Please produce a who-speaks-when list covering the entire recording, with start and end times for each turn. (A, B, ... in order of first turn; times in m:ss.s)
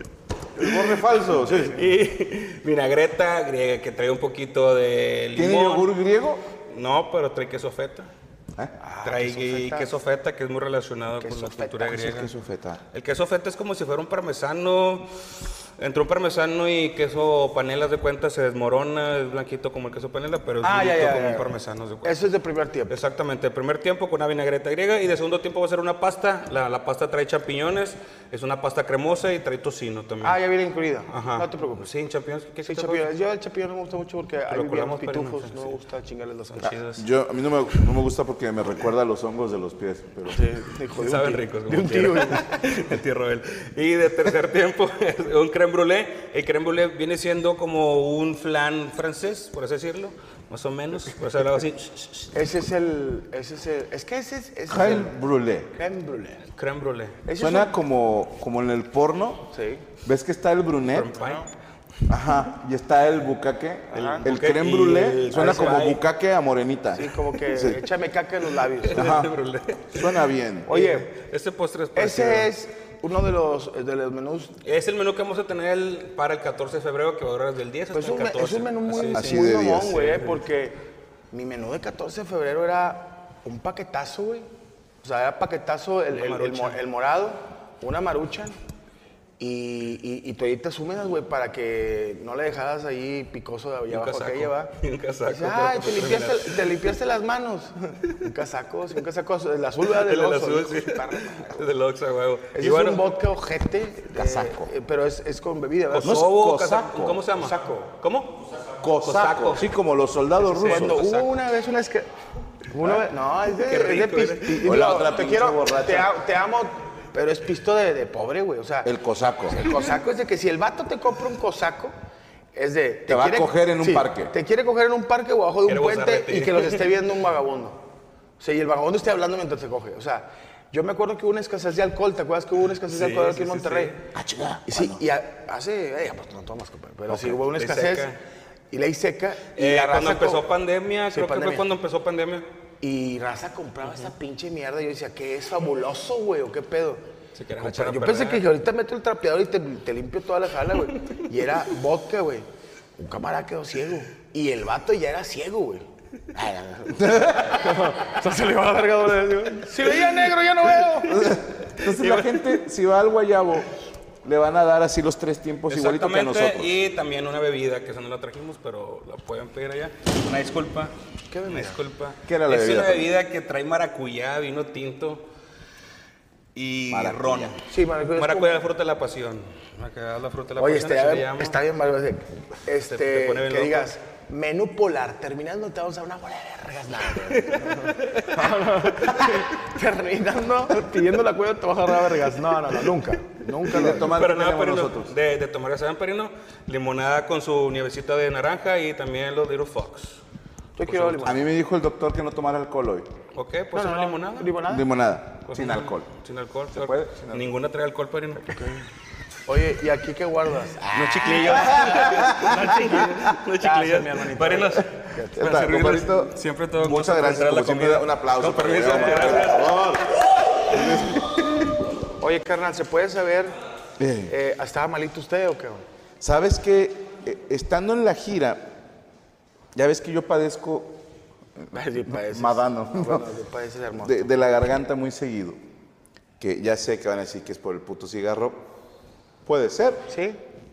0:00.5-0:01.8 A
0:01.6-0:05.9 B
0:05.3-0:06.4 A
0:06.7-0:08.1 B
0:08.8-0:09.9 C
0:09.0-0:12.3 B
0:11.2-0:12.0 C
0:11.9-0:12.8 A
0:12.9-0:15.1 B
0:15.8-0:22.2 B
0:20.6-0:22.9 C
0:22.9-0:30.4 B
0:30.2-0:31.8 C
0:31.1-0:33.1 B
0:32.6-0:36.8 C
0:34.5-0:35.8 B
0:36.6-0:37.0 B
0:36.9-0:40.5 A
0:40.3-0:42.6 C
0:41.0-0:52.3 B
0:52.3-0:55.1 C
0:54.7-0:55.7 A
0:55.7-0:56.5 C
0:56.6-0:57.2 B
0:57.2-0:57.7 C
0:57.4-0:59.5 A
0:59.5-0:59.8 C
1:00.0-1:01.2 A
1:00.9-1:01.5 B
1:02.1-1:07.8 A
1:03.9-1:04.2 C
1:03.9-1:06.0 B
1:05.3-1:05.7 C
1:06.9-1:09.2 C
1:08.8-1:10.2 B
1:08.9-1:09.3 A
1:09.9-1:10.7 A
1:10.7-1:11.1 C
1:10.7-1:12.5 B
1:11.9-1:14.5 C
1:14.6-1:20.4 B
1:17.9-1:20.8 C
1:19.1-1:20.1 A
1:21.3-1:24.5 C
1:25.0-1:28.6 C
1:26.1-1:26.8 B
1:29.4-1:34.7 C
1:33.9-1:36.9 B
1:35.2-1:41.6 C
1:39.9-1:43.0 B
1:42.5-1:46.2 C
1:44.1-1:44.7 A
1:45.9-1:48.4 B
1:46.0-1:47.3 A
1:47.4-1:47.9 C
1:48.8-1:51.0 A
1:49.0-1:49.7 B
1:50.5-1:51.4 B
1:50.6-1:52.1 C
1:52.7-1:58.9 C
1:53.5-1:55.1 B
1:54.5-1:56.1 A
1:58.8-1:59.6 A
1:59.5-2:01.9 C
2:02.5-2:07.8 C
2:03.1-2:04.3 A
2:05.6-2:06.9 B
2:08.4-2:14.0 C
2:12.9-2:14.0 B
2:14.1-2:15.0 A
2:14.7-2:18.1 C
2:17.1-2:18.2 B
2:18.7-2:20.4 C
2:19.6-2:22.4 B
2:21.1-2:21.6 C
2:22.8-2:27.0 C
2:27.4-2:28.4 B
2:27.6-2:41.2 C
2:37.0-2:37.5 A
2:41.0-2:43.7 A
2:41.8-2:42.4 B
2:44.2-2:46.8 A
2:45.7-2:55.2 B
2:51.3-2:51.8 C
2:52.2-2:53.1 A
2:56.5-2:57.6 B
2:56.9-2:57.6 A
2:57.7-2:58.6 C
2:58.1-3:01.6 B
3:00.6-3:14.1 C
3:02.8-3:03.9 B
3:07.3-3:09.3 B
3:13.6-3:15.1 A
3:13.8-3:20.2 B
3:20.8-3:21.4 C
3:20.8-3:21.3 B
3:21.2-3:23.1 A
3:23.3-3:24.6 B
3:23.7-3:24.9 C
3:24.7-3:26.1 A
3:25.5-3:28.6 B
3:26.7-3:27.5 A
3:28.4-3:28.8 C
3:29.5-3:35.5 C
3:30.9-3:41.4 B
3:31.4-3:32.5 A
3:35.4-3:41.5 A
3:39.0-3:39.4 C
3:42.2-3:43.5 C
3:44.0-3:44.3 A
3:44.3-3:45.8 C
3:46.2-3:48.6 A
3:49.7-3:51.0 A
3:51.7-3:54.3 C
3:52.1-3:53.3 A
3:54.0-3:55.6 A
3:56.4-3:58.6 A
3:59.4-4:00.1 A
4:00.1-4:00.4 C